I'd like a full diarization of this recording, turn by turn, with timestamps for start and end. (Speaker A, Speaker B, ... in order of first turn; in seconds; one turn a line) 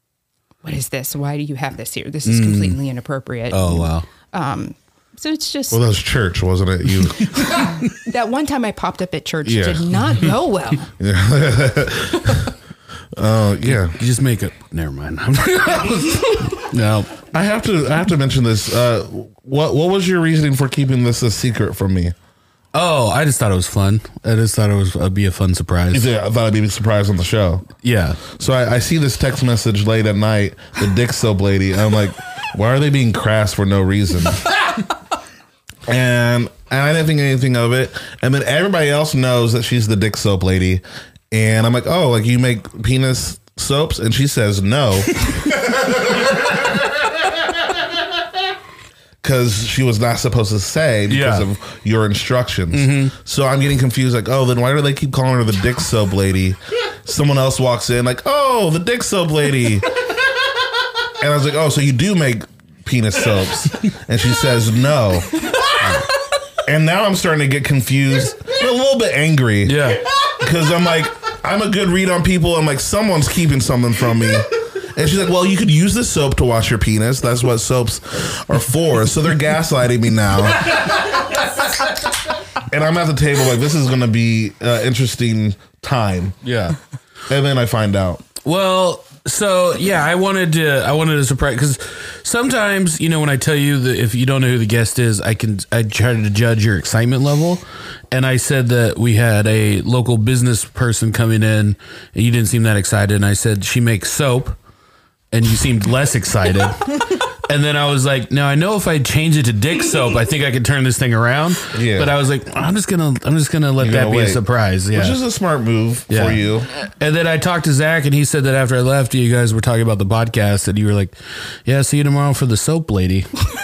Speaker A: 0.6-5.8
Speaker B: 2.2-2.8
Speaker B: 3.5-4.1
Speaker C: 5.7-7.6
Speaker A: 7.5-10.9
Speaker C: 9.4-9.9
Speaker C: 11.0-12.5
Speaker C: 13.2-14.0
Speaker B: 13.7-17.1
Speaker C: 17.3-22.1
Speaker B: 22.7-26.1
Speaker C: 25.9-27.7
Speaker B: 27.8-28.2
Speaker C: 28.2-34.7
Speaker C: 35.9-45.7
Speaker C: 49.2-59.9
Speaker B: 51.1-51.5
Speaker B: 52.7-53.1
Speaker C: 61.2-65.4
Speaker C: 66.6-81.3
Speaker B: 69.7-70.1
Speaker C: 82.6-86.4
Speaker B: 86.4-86.8
Speaker C: 87.3-88.2
Speaker B: 88.4-104.6
Speaker B: 105.3-115.2
Speaker C: 111.7-112.2
Speaker C: 113.8-114.4
Speaker C: 114.9-116.7
Speaker B: 116.1-123.3